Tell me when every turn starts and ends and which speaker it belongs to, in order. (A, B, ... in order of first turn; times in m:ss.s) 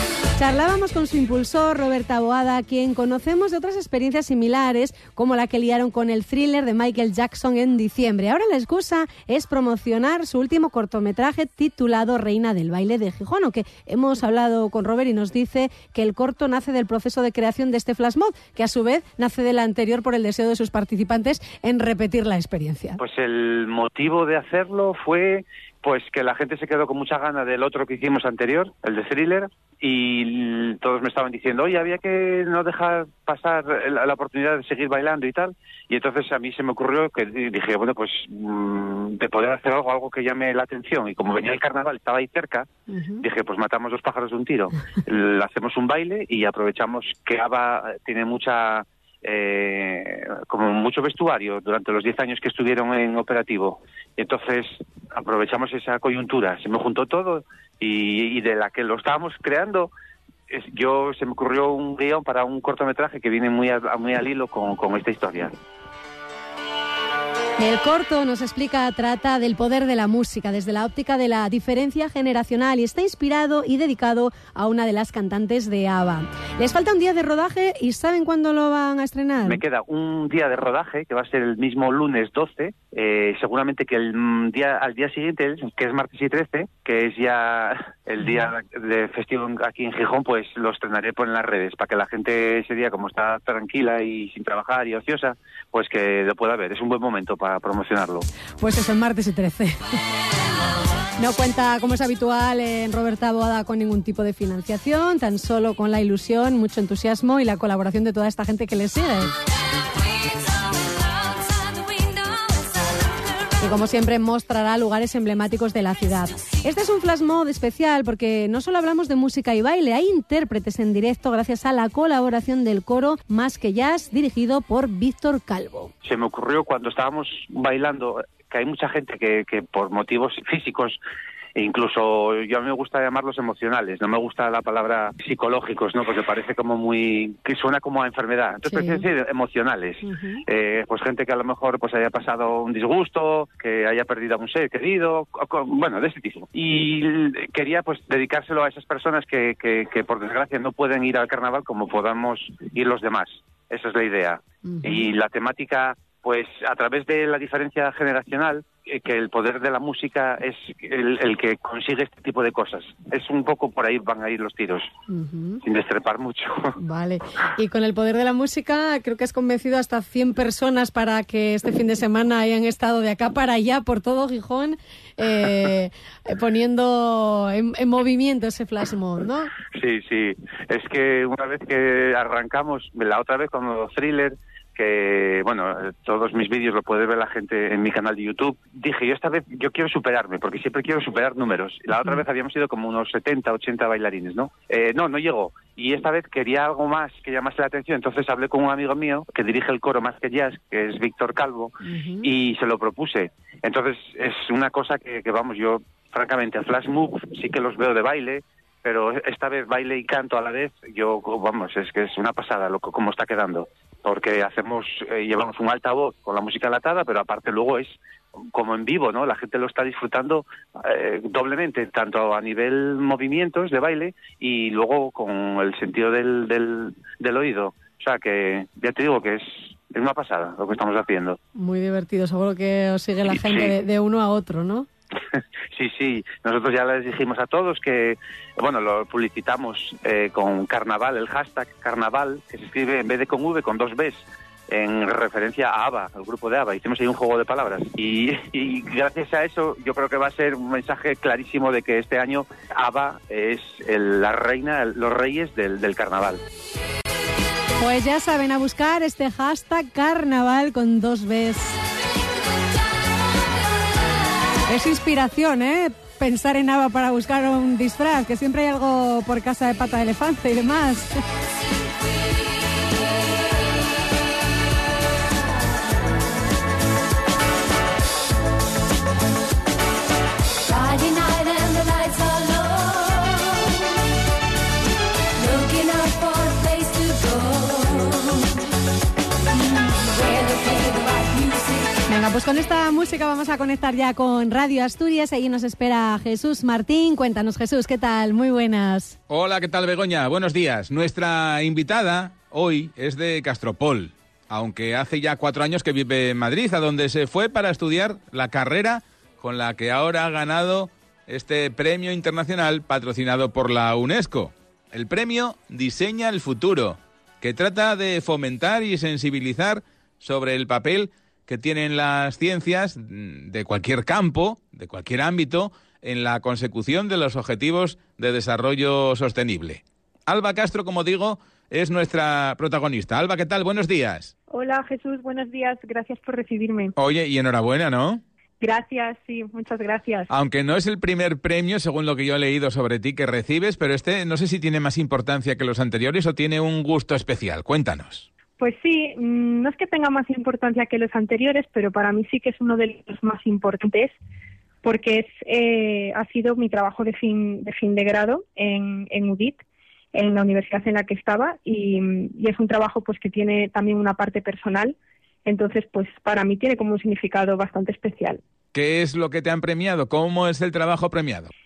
0:00.4-0:23.0 A
0:23.0-0:42.7 B
0:42.9-0:43.2 A
0:43.2-0:59.9 B
1:00.5-1:05.5 B
1:07.6-1:19.6 A
1:19.4-1:38.2 B
1:38.6-1:39.8 A
1:41.2-1:49.3 A
1:53.6-2:05.9 A
2:06.0-2:11.0 B
2:11.6-2:44.8 B
2:18.6-2:19.0 A
2:20.0-2:20.4 A
2:34.6-2:35.0 A
2:45.1-2:45.6 A
2:45.6-2:46.7 B
2:46.8-2:59.5 A
2:59.8-3:38.0 B
3:21.8-3:22.3 A
3:38.5-3:51.4 B
3:51.5-3:54.9 A
3:53.3-3:53.7 B
3:55.7-4:16.4 B
4:17.8-4:21.8 A
4:24.7-4:31.1 A
4:52.1-4:59.2 A
4:59.3-5:34.3 C
5:34.5-5:36.9 D
5:37.0-5:38.2 C
5:38.6-5:40.3 D
5:40.3-5:48.3 C
5:48.6-5:54.1 D
5:54.8-5:59.6 D
6:00.1-6:04.9 D
6:05.4-6:08.4 D
6:08.7-6:11.5 C